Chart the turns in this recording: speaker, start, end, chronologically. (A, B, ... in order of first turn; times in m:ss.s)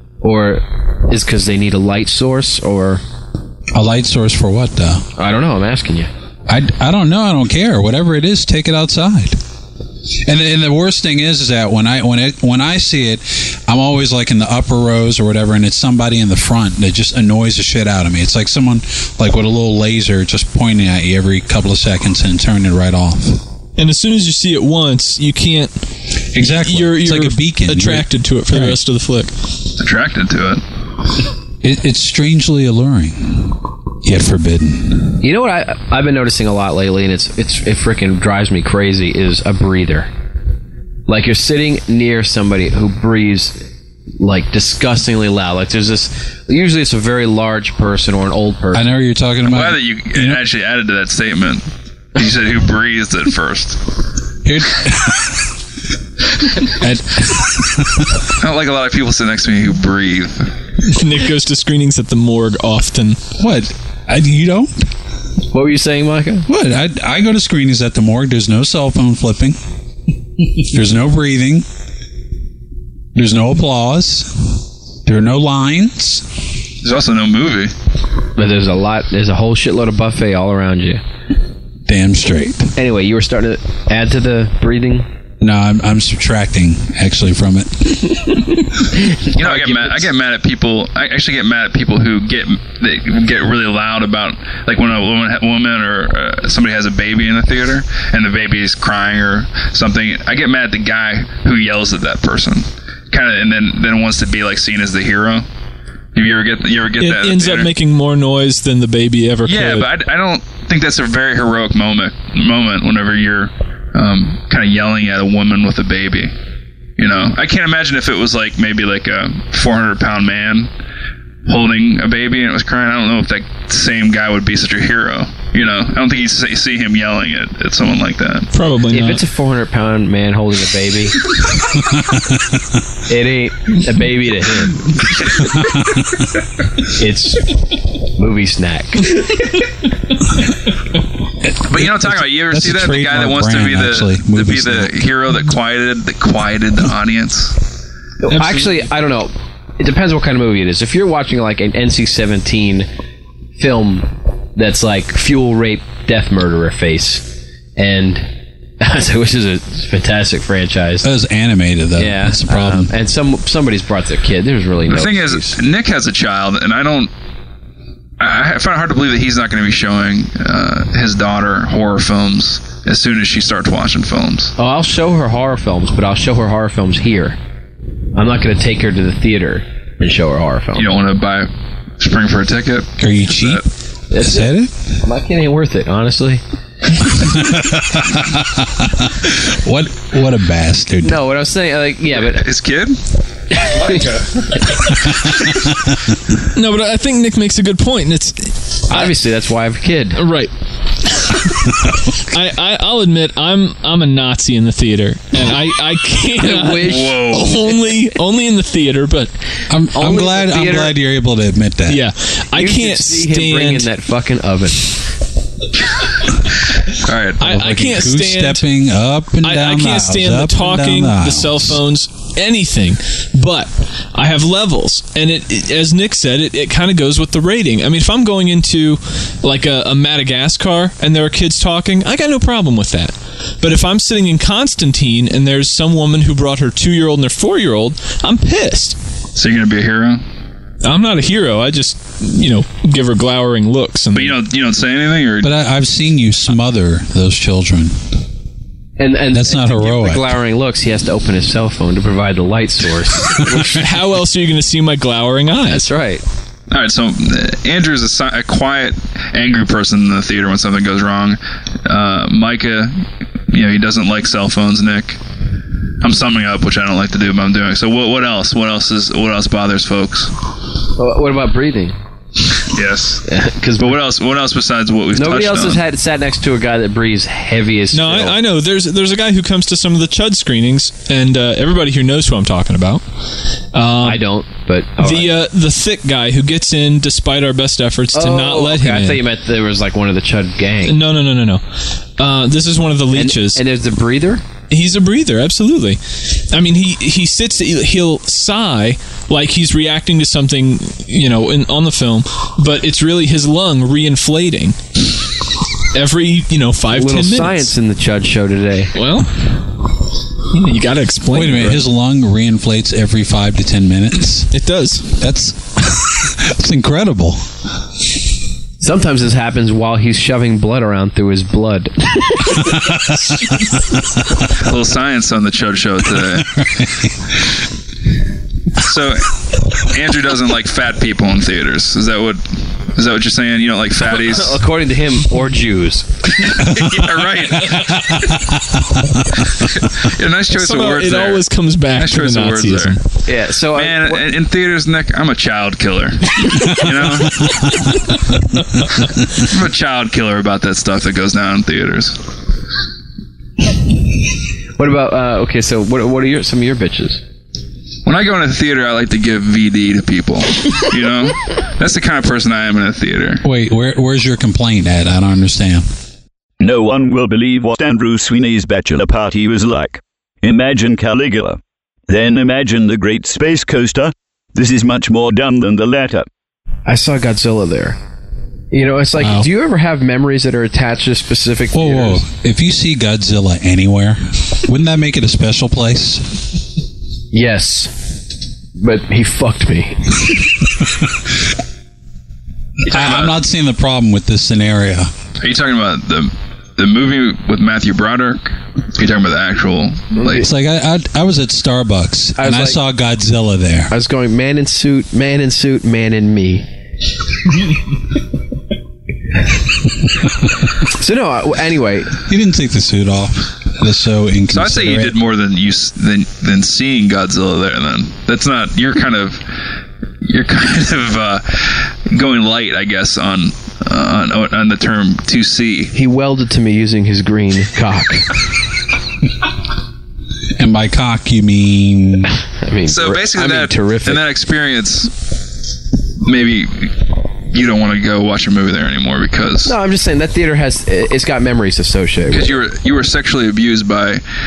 0:00.2-0:03.0 A
0:03.7-0:05.0 B
0:05.2-0:06.1 A
0:06.5-0:09.4 B
0:10.2-0:23.4 B
0:23.8-0:25.8 C
0:26.3-0:28.8 B
0:26.4-0:29.3 C
0:29.8-0:30.6 D
0:31.6-0:35.2 B
0:35.2-0:40.1 A
0:41.1-0:43.7 A
0:44.2-0:48.9 A
0:48.7-0:50.4 B
0:49.5-0:53.8 D
0:54.4-0:55.4 B
0:56.8-0:58.0 B
0:58.4-1:00.5 D
1:00.8-1:03.3 C
1:03.4-1:04.7 B
1:05.5-1:06.5 A
1:06.5-1:09.6 B
1:10.6-1:11.6 B
1:13.2-1:14.5 B
1:15.0-1:16.2 B
1:16.8-1:17.7 D
1:18.4-1:21.0 A
1:21.9-1:22.7 B
1:22.8-1:25.1 A
1:25.4-1:28.2 B
1:29.3-1:45.5 D
1:29.4-1:30.1 A
1:46.2-1:47.7 D
1:47.0-1:49.9 C
1:49.5-1:56.3 D
1:57.0-2:00.7 D
2:01.5-2:08.5 D
2:08.5-2:09.2 C
2:08.9-2:11.2 A
2:13.1-2:14.9 A
2:16.9-2:17.5 A
2:18.2-2:19.1 A
2:21.5-2:25.1 B
2:21.7-2:27.6 D
2:28.2-2:32.9 A
2:33.6-2:38.3 A
2:38.8-2:41.1 A
2:41.0-2:42.9 B
2:42.0-2:45.6 A
2:44.9-2:47.1 D
2:48.2-2:54.5 D
2:54.6-2:57.4 A
2:58.2-3:00.9 A
3:00.8-3:03.6 D
3:03.0-3:03.6 B
3:04.1-3:06.4 A
3:04.2-3:04.9 B
3:07.2-3:08.8 B
3:09.5-3:11.2 B
3:11.0-3:12.5 A
3:12.2-3:13.0 D
3:13.7-3:14.1 A
3:15.1-3:15.4 B
3:16.5-3:19.1 C
3:18.9-3:20.2 A
3:20.2-3:20.5 C
3:21.1-3:21.4 C
3:22.3-3:29.3 C
3:26.4-3:27.2 A
3:26.8-3:27.6 D
3:29.7-3:32.0 B
3:30.0-3:31.0 A
3:31.9-3:33.9 C
3:32.6-3:34.9 A
3:37.0-3:37.4 D
3:37.4-3:38.6 C
3:37.5-3:41.8 B
3:39.4-3:59.0 C
3:59.4-4:00.2 D
4:00.8-4:04.4 C
4:04.1-4:05.5 D
4:05.4-4:08.0 B
4:09.0-4:13.8 A
4:09.3-4:10.4 B
4:13.7-4:15.9 C
4:15.8-4:16.2 A
4:16.7-4:25.2 D
4:26.0-4:30.3 D
4:31.0-4:32.0 A
4:32.7-4:33.3 D
4:33.3-4:34.0 A
4:33.8-4:35.8 D
4:35.1-4:38.4 A
4:37.9-4:43.0 C
4:43.7-4:44.2 C
4:44.0-4:45.3 A
4:45.0-4:49.2 C
4:48.1-4:51.0 A
4:50.8-4:51.6 C
4:52.2-4:53.6 C
4:53.1-4:54.4 A
4:54.7-5:04.8 C
5:05.9-5:07.7 C
5:06.9-5:08.9 A
5:08.9-5:09.5 C
5:10.5-5:11.9 C
5:11.3-5:14.5 B
5:14.5-5:15.1 C
5:15.2-5:17.4 B
5:18.8-5:22.6 A
5:24.6-5:26.6 D
5:26.6-5:27.1 B
5:28.8-5:32.4 D
5:33.0-5:34.6 D
5:34.2-5:36.1 A
5:36.4-5:38.2 D
5:37.7-5:38.2 B
5:39.6-5:43.0 D
5:40.5-5:43.0 C
5:43.3-5:44.2 A
5:43.7-5:47.6 D
5:47.3-5:47.8 B
5:49.4-5:52.2 D
5:54.8-5:57.2 A
5:58.1-6:03.4 D
6:03.4-6:05.9 B
6:06.6-6:16.3 E
6:16.9-6:18.0 A
6:18.7-6:22.2 A
6:21.7-6:26.4 B
6:27.3-6:27.9 A
6:28.8-6:30.2 A
6:32.9-6:35.1 B
6:32.9-6:33.4 D
6:35.4-6:40.5 D
6:40.4-6:43.9 B
6:42.4-6:42.8 A
6:43.9-6:46.7 A
6:50.9-6:52.1 A
6:52.3-6:55.2 B
6:54.5-6:59.4 D
7:00.2-7:05.9 D
7:05.9-7:08.3 A
7:10.6-7:12.3 B
7:12.6-7:14.2 A
7:12.9-7:15.2 D
7:16.2-7:17.0 D
7:17.5-7:19.7 D
7:19.6-7:22.6 A
7:22.3-7:24.2 D